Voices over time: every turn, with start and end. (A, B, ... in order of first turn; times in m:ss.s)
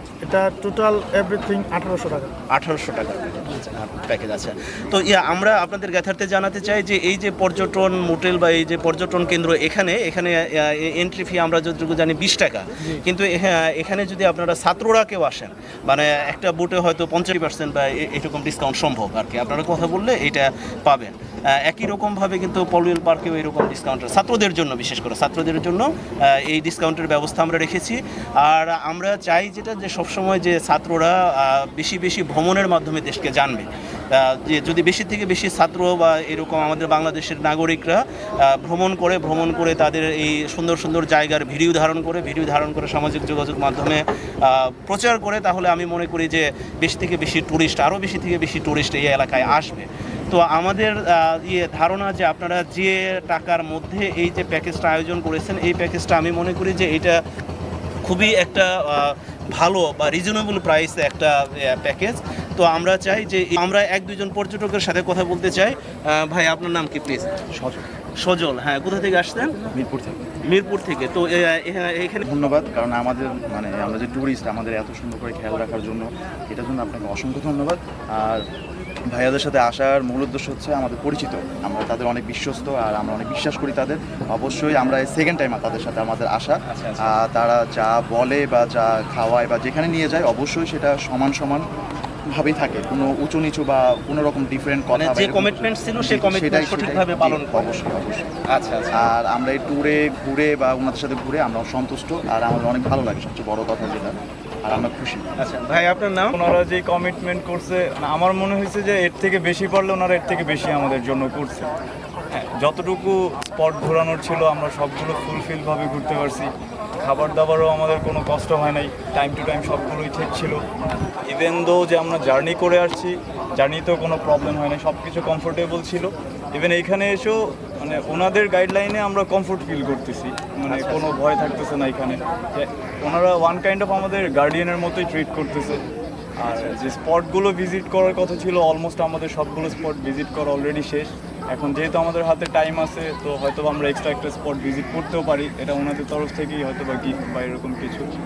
0:00.2-0:02.3 A
0:02.5-0:57.2 B
0:58.0-1:07.4 B
1:08.2-1:09.6 B
1:09.7-1:10.2 C
1:10.5-1:12.2 B
1:12.2-1:18.4 C
1:19.1-1:31.6 C
1:26.7-1:27.2 B
1:32.3-1:38.3 C
1:35.0-1:37.7 B
1:38.5-1:39.1 B
1:38.9-1:45.3 C
1:45.4-1:46.4 B
1:46.3-1:51.7 D
1:52.3-1:56.5 D
1:57.0-2:00.6 D
2:01.2-2:15.8 D
2:10.7-2:11.1 B
2:16.4-2:28.1 D
2:16.5-2:16.9 B